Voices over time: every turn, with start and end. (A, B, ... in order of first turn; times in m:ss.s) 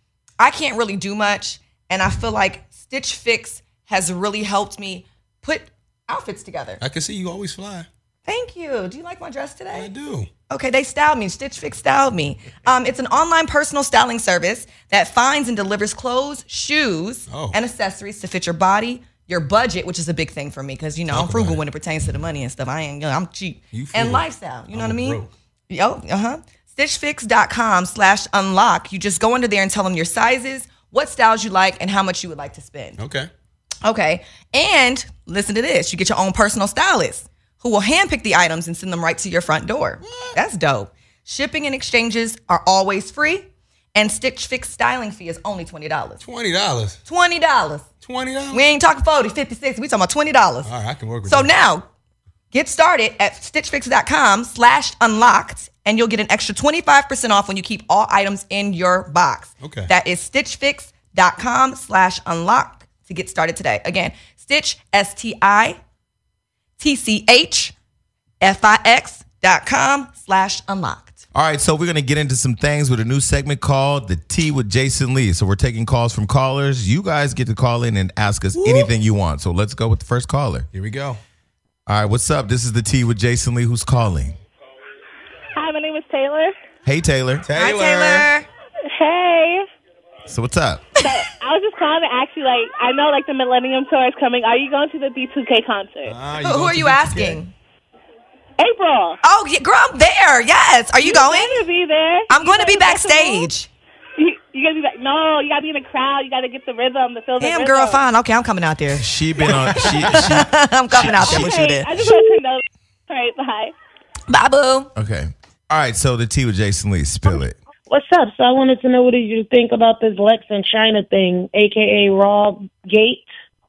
0:00.4-0:06.8 A
0:06.8-0:07.9 B
0:08.2-0:09.9 A
0:09.7-0:10.3 B
0:10.5-0:33.0 A
0:17.3-0:17.6 B
0:21.1-0:21.6 B
0:23.7-0:25.3 B
0:33.0-0:33.3 B
0:33.8-0:46.2 A
0:40.0-0:40.4 B
0:46.2-0:47.0 B
0:47.0-0:47.8 A
0:48.0-0:48.6 B
0:48.5-0:50.7 A
0:50.6-0:51.5 B
0:51.2-0:51.8 A
0:52.5-1:05.8 A
0:59.6-0:59.9 B
1:06.8-1:07.7 A
1:08.4-1:11.2 A
1:11.3-1:20.7 C
1:18.5-1:18.9 B
1:20.7-1:21.2 B
1:21.9-1:24.4 C
1:25.5-1:26.5 D
1:26.8-1:27.4 C
1:27.4-1:28.3 B
1:27.6-1:28.5 A
1:28.9-1:29.7 D
1:30.3-1:30.9 C
1:31.0-1:36.2 D
1:36.0-1:37.4 B
1:36.4-1:37.5 A
1:38.6-1:39.2 D
1:39.2-1:41.6 A
1:41.0-1:43.5 D
1:42.3-1:43.7 A
1:44.2-1:48.0 D
1:47.4-1:49.1 A
1:49.0-1:52.0 C
1:49.8-1:51.9 A
1:51.2-1:53.7 D
1:54.3-1:54.9 A
1:54.9-1:57.6 C
1:57.9-2:03.3 E